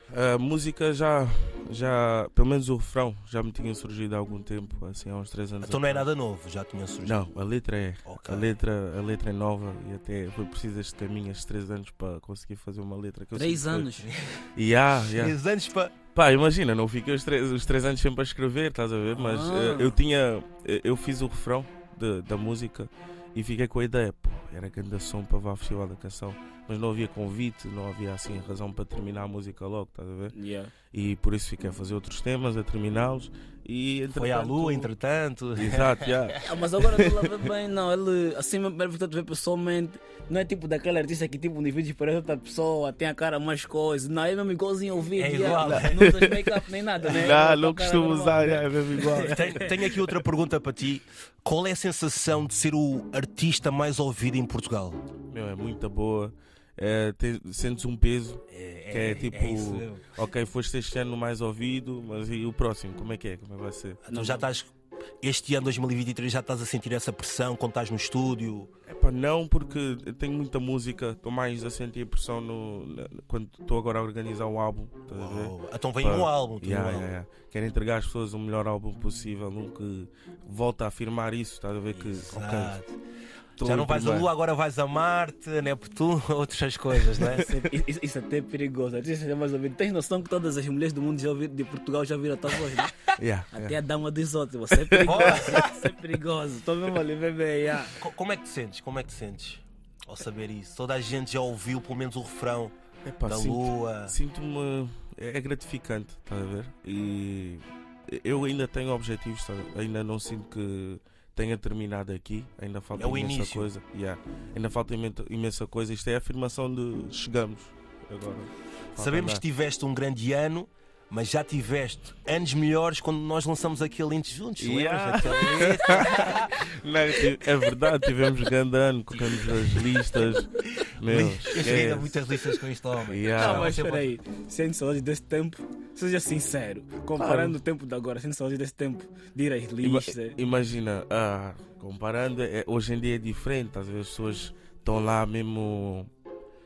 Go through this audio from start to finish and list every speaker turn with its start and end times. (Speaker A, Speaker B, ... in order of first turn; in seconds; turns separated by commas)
Speaker A: 0.1-6.1, Speaker B: 5.6-7.2, Speaker A: 7.0-14.0, Speaker B: 8.0-8.5, Speaker C: 13.3-14.1, Speaker B: 14.0-14.4, Speaker A: 14.6-15.3, Speaker B: 15.1-15.9, Speaker A: 16.1-30.3, Speaker C: 19.1-20.0, Speaker C: 30.3-30.7, Speaker A: 30.9-34.9, Speaker B: 34.1-36.4, Speaker A: 35.5-37.5, Speaker C: 36.4-49.7, Speaker B: 45.1-46.1, Speaker A: 45.6-49.8, Speaker B: 47.0-47.4, Speaker B: 49.1-55.0, Speaker A: 55.3-64.0, Speaker B: 58.5-60.1, Speaker B: 64.0-68.7, Speaker C: 64.1-64.4, Speaker A: 68.9-82.8, Speaker B: 75.1-77.1, Speaker B: 81.9-82.9, Speaker A: 83.6-84.3, Speaker B: 83.6-87.5, Speaker A: 87.2-87.7, Speaker C: 87.4-98.0, Speaker A: 93.2-93.8, Speaker A: 94.9-95.5, Speaker B: 95.0-95.8, Speaker B: 98.0-104.1, Speaker A: 103.0-119.4, Speaker B: 112.9-113.7, Speaker B: 119.0-126.7, Speaker A: 124.6-132.2, Speaker B: 130.8-134.1, Speaker A: 133.0-133.7, Speaker C: 133.3-140.4, Speaker A: 137.2-137.6, Speaker A: 139.8-146.1